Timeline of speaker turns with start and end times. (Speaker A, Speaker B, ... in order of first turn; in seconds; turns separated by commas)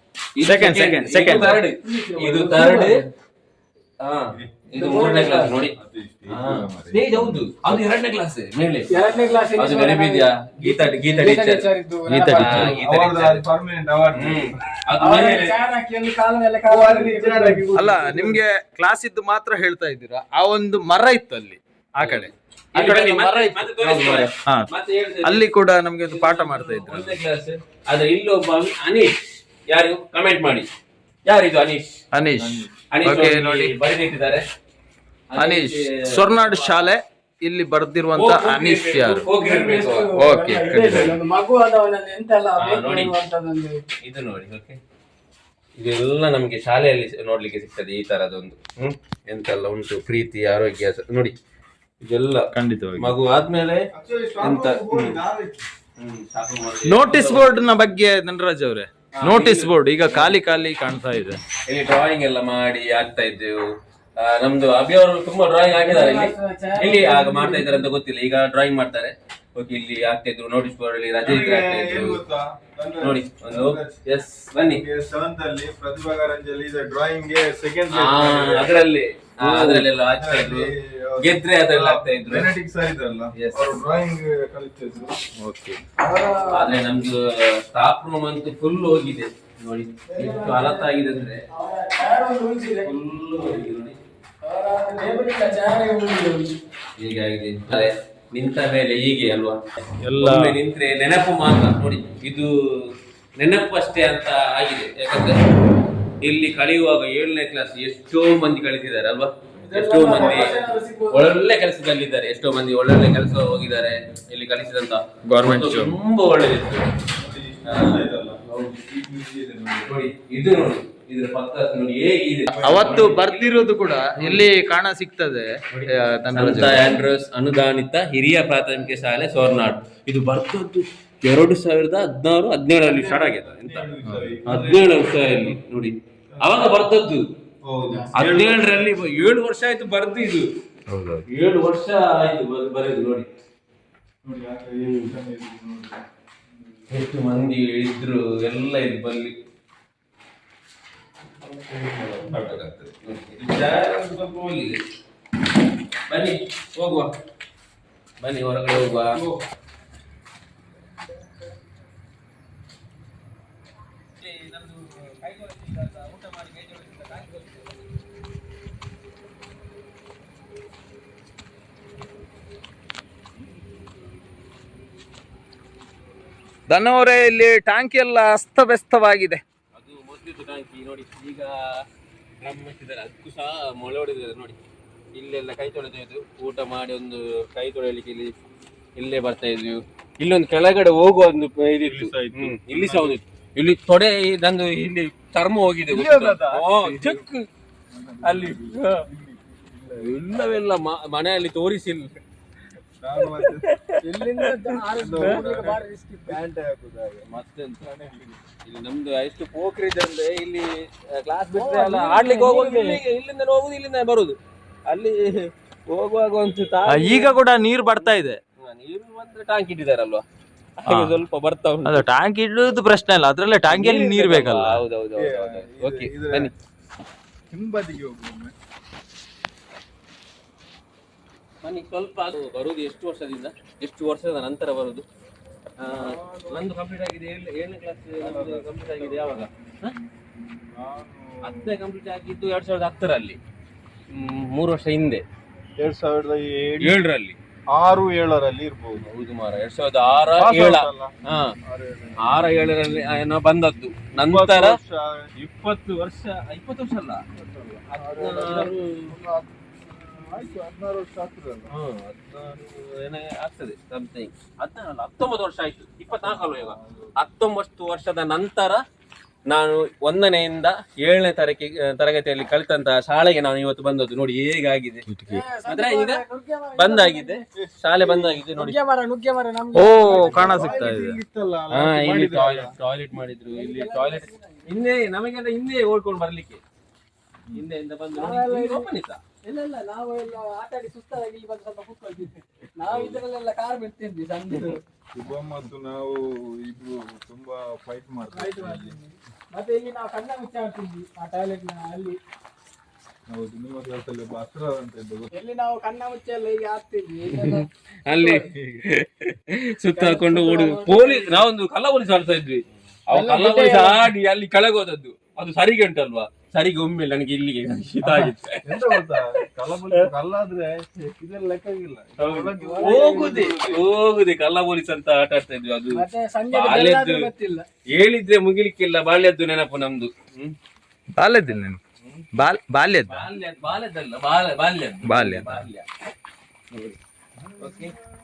Speaker A: 0.3-3.0, Speaker B: 0.4-1.6, Speaker C: 1.7-3.1, Speaker A: 4.0-5.7, Speaker D: 4.3-7.4, Speaker C: 4.8-5.5, Speaker A: 6.3-13.5, Speaker C: 8.9-12.7, Speaker B: 12.1-12.7, Speaker D: 12.8-14.6, Speaker A: 14.1-15.6, Speaker C: 15.0-17.6, Speaker D: 16.6-18.4, Speaker B: 17.7-24.7, Speaker A: 22.0-25.5, Speaker B: 25.2-27.2, Speaker A: 26.0-30.7, Speaker A: 31.2-32.0, Speaker B: 32.1-33.7, Speaker D: 32.4-32.7, Speaker A: 32.9-34.4, Speaker A: 35.3-36.9, Speaker B: 35.4-39.3, Speaker A: 38.1-40.1, Speaker C: 39.3-43.8, Speaker B: 40.1-41.2, Speaker A: 42.6-43.1, Speaker A: 44.0-44.8, Speaker A: 45.8-51.3, Speaker A: 52.0-53.8, Speaker B: 52.5-53.1, Speaker D: 53.9-55.6, Speaker A: 54.4-55.2, Speaker A: 56.0-57.6, Speaker B: 56.8-61.4, Speaker A: 59.1-60.3, Speaker A: 61.7-63.7, Speaker A: 64.2-72.2, Speaker C: 65.8-67.9, Speaker D: 71.2-74.0, Speaker A: 73.0-74.8, Speaker D: 74.6-78.7, Speaker A: 77.9-82.5, Speaker D: 79.4-85.2, Speaker A: 83.3-83.6, Speaker B: 85.4-85.8, Speaker C: 86.0-86.7, Speaker A: 86.5-91.4, Speaker C: 90.1-90.8, Speaker C: 91.5-92.9, Speaker A: 92.8-94.0, Speaker C: 94.4-96.5, Speaker A: 97.0-99.6, Speaker B: 100.0-100.6, Speaker A: 100.2-105.4, Speaker A: 106.2-110.5, Speaker C: 109.7-111.3, Speaker D: 110.1-110.5, Speaker A: 111.1-116.9, Speaker B: 115.3-115.9, Speaker D: 117.2-119.9, Speaker A: 117.7-118.8, Speaker A: 119.8-124.5, Speaker D: 122.5-123.2, Speaker B: 122.6-126.9, Speaker A: 125.7-133.9, Speaker D: 133.1-135.3, Speaker B: 134.0-134.5, Speaker A: 134.4-137.2, Speaker D: 136.3-136.8, Speaker D: 137.6-139.0, Speaker A: 138.1-140.5, Speaker B: 140.9-141.2, Speaker A: 141.3-143.3, Speaker D: 144.2-146.0, Speaker A: 144.8-145.2, Speaker A: 146.9-149.3, Speaker A: 151.7-154.8, Speaker B: 152.3-152.6, Speaker A: 156.1-157.1, Speaker A: 158.2-159.2, Speaker A: 164.2-167.8, Speaker B: 176.7-179.4, Speaker A: 179.7-181.8, Speaker A: 182.4-184.6, Speaker A: 185.1-188.3, Speaker A: 188.9-197.5, Speaker D: 191.8-193.2, Speaker D: 195.8-197.2, Speaker D: 197.9-200.2, Speaker A: 198.2-199.1, Speaker A: 200.0-202.2, Speaker D: 203.0-203.7, Speaker A: 203.2-204.4, Speaker C: 204.0-206.4, Speaker D: 204.9-207.2, Speaker A: 207.3-207.8, Speaker D: 207.8-208.4, Speaker A: 208.6-214.4, Speaker C: 211.5-213.0, Speaker A: 214.9-217.4, Speaker B: 216.9-218.4, Speaker A: 217.9-220.2, Speaker A: 220.8-222.1, Speaker B: 220.9-221.2, Speaker B: 221.8-224.8, Speaker A: 223.7-226.5, Speaker D: 225.2-226.5, Speaker D: 227.5-228.5, Speaker A: 231.6-235.0, Speaker A: 235.8-239.9, Speaker D: 235.9-236.7, Speaker D: 238.2-239.4, Speaker D: 240.8-241.8, Speaker A: 241.4-243.4, Speaker A: 244.1-245.2, Speaker D: 245.8-247.0, Speaker A: 246.8-247.4, Speaker D: 247.7-249.1, Speaker A: 249.0-251.6, Speaker D: 250.3-251.1, Speaker D: 251.6-252.8, Speaker A: 252.2-254.8, Speaker D: 254.2-255.3, Speaker A: 255.4-257.2, Speaker D: 257.3-261.7, Speaker A: 257.9-259.1, Speaker A: 261.7-268.8, Speaker D: 266.2-267.1, Speaker A: 269.5-275.1, Speaker B: 275.1-275.4, Speaker C: 275.3-277.4, Speaker A: 275.6-276.2, Speaker A: 276.8-278.8, Speaker D: 277.6-278.4, Speaker C: 278.6-280.8, Speaker B: 279.7-281.2, Speaker D: 280.0-282.7, Speaker A: 281.7-286.6, Speaker C: 283.5-284.8, Speaker A: 287.5-289.2, Speaker C: 288.1-288.9, Speaker C: 289.4-294.8, Speaker A: 292.9-293.1, Speaker D: 295.1-298.9, Speaker C: 298.3-302.2, Speaker D: 303.3-305.3, Speaker C: 305.3-308.5, Speaker A: 307.3-319.4, Speaker C: 309.9-311.4, Speaker C: 313.1-314.1, Speaker D: 318.0-323.8, Speaker A: 322.2-327.2, Speaker C: 322.5-323.4, Speaker C: 325.9-327.7, Speaker A: 327.9-330.6, Speaker B: 331.2-331.8, Speaker B: 332.4-333.2, Speaker A: 333.1-335.9, Speaker B: 335.0-335.6, Speaker A: 337.6-337.9